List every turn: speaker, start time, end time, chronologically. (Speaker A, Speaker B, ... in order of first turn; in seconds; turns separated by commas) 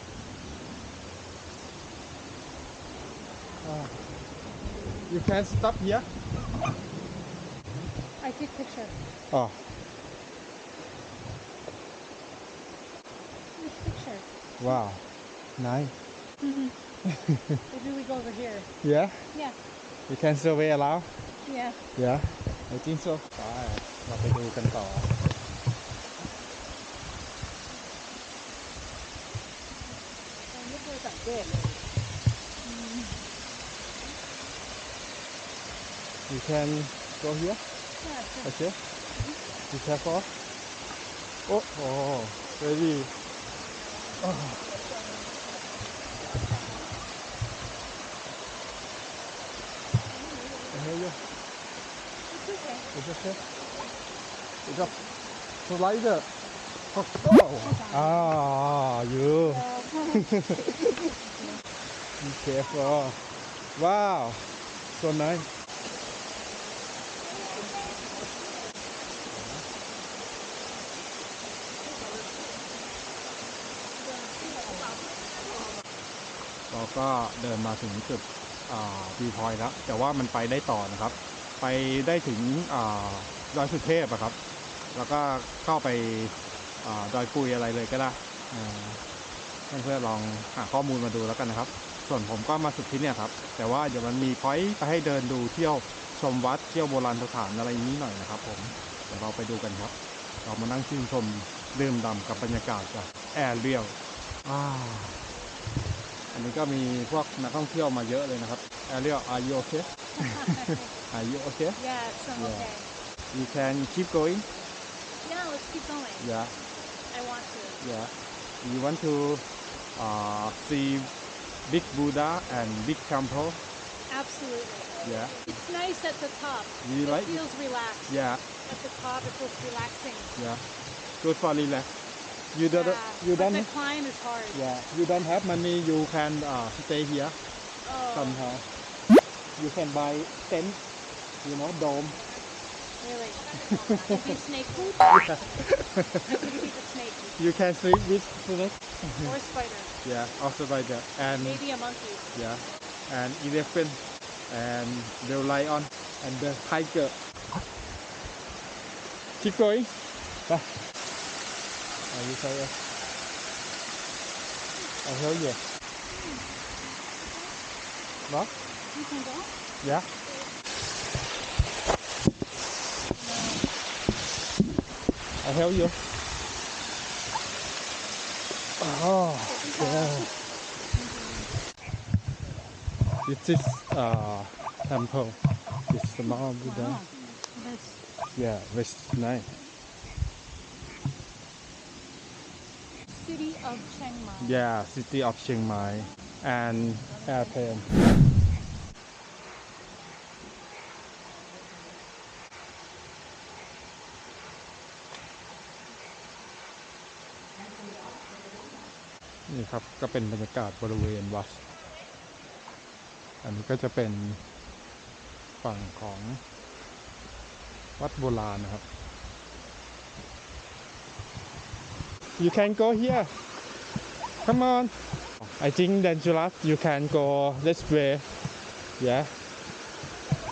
Speaker A: 3.6-3.9, Speaker A: 5.1-6.1, Speaker B: 8.2-8.9, Speaker A: 9.3-9.6, Speaker B: 13.6-14.8, Speaker A: 14.6-15.0, Speaker A: 15.6-15.9, Speaker B: 16.4-16.7, Speaker A: 17.0-17.6, Speaker B: 17.7-18.7, Speaker A: 18.8-19.3, Speaker A: 20.1-21.1, Speaker B: 21.4-21.8, Speaker A: 21.9-25.1, Speaker B: 30.5-31.7, Speaker B: 32.6-33.2, Speaker A: 36.3-37.6, Speaker B: 38.0-38.5, Speaker A: 38.4-38.8, Speaker B: 39.1-39.4, Speaker A: 39.7-40.3, Speaker A: 41.5-43.1, Speaker A: 44.2-44.6, Speaker A: 50.7-51.2, Speaker B: 52.3-52.9, Speaker A: 52.9-53.4, Speaker A: 54.6-54.9, Speaker A: 55.6-56.3, Speaker A: 56.9-61.0, Speaker B: 57.6-58.4, Speaker B: 59.6-60.2, Speaker A: 62.2-63.2, Speaker A: 63.8-65.5, Speaker A: 69.3-69.6, Speaker B: 74.1-75.0, Speaker A: 76.7-84.3, Speaker A: 84.9-89.0, Speaker A: 89.7-99.9, Speaker A: 100.4-105.2, Speaker A: 106.3-111.8, Speaker B: 110.2-110.9, Speaker B: 111.8-112.9, Speaker A: 112.3-112.7, Speaker A: 113.3-114.5, Speaker B: 115.2-116.3, Speaker A: 116.2-116.5, Speaker B: 117.1-117.8, Speaker A: 117.8-119.4, Speaker A: 120.0-121.1, Speaker A: 121.7-123.6, Speaker B: 124.1-130.3, Speaker A: 125.0-125.3, Speaker A: 126.8-127.4, Speaker A: 128.1-128.4, Speaker A: 130.4-130.6, Speaker A: 131.2-131.9, Speaker A: 132.5-133.7, Speaker B: 132.7-134.6, Speaker A: 134.5-137.4, Speaker B: 137.8-138.5, Speaker A: 138.1-138.6, Speaker A: 139.6-140.8, Speaker A: 141.4-142.2, Speaker B: 143.0-147.4, Speaker A: 143.8-144.3, Speaker A: 145.0-146.6, Speaker A: 147.4-149.2, Speaker B: 149.2-149.9, Speaker A: 150.0-151.6, Speaker B: 151.3-152.3, Speaker A: 152.3-154.0, Speaker A: 154.5-157.1, Speaker A: 159.4-159.9, Speaker A: 162.1-162.7, Speaker A: 165.0-165.6, Speaker B: 166.1-166.5, Speaker B: 167.2-167.5, Speaker B: 168.9-169.5, Speaker A: 169.8-170.1, Speaker B: 173.2-173.6, Speaker A: 175.4-176.0, Speaker A: 178.8-180.3, Speaker B: 179.5-180.3, Speaker B: 180.9-181.5, Speaker A: 183.2-187.0, Speaker B: 186.6-188.0, Speaker A: 188.3-189.5, Speaker B: 193.1-194.6, Speaker A: 194.4-197.9, Speaker A: 209.5-211.6, Speaker A: 213.4-214.4, Speaker A: 215.6-216.4, Speaker A: 218.0-218.8, Speaker A: 222.4-223.3, Speaker A: 224.4-228.3, Speaker A: 229.0-229.3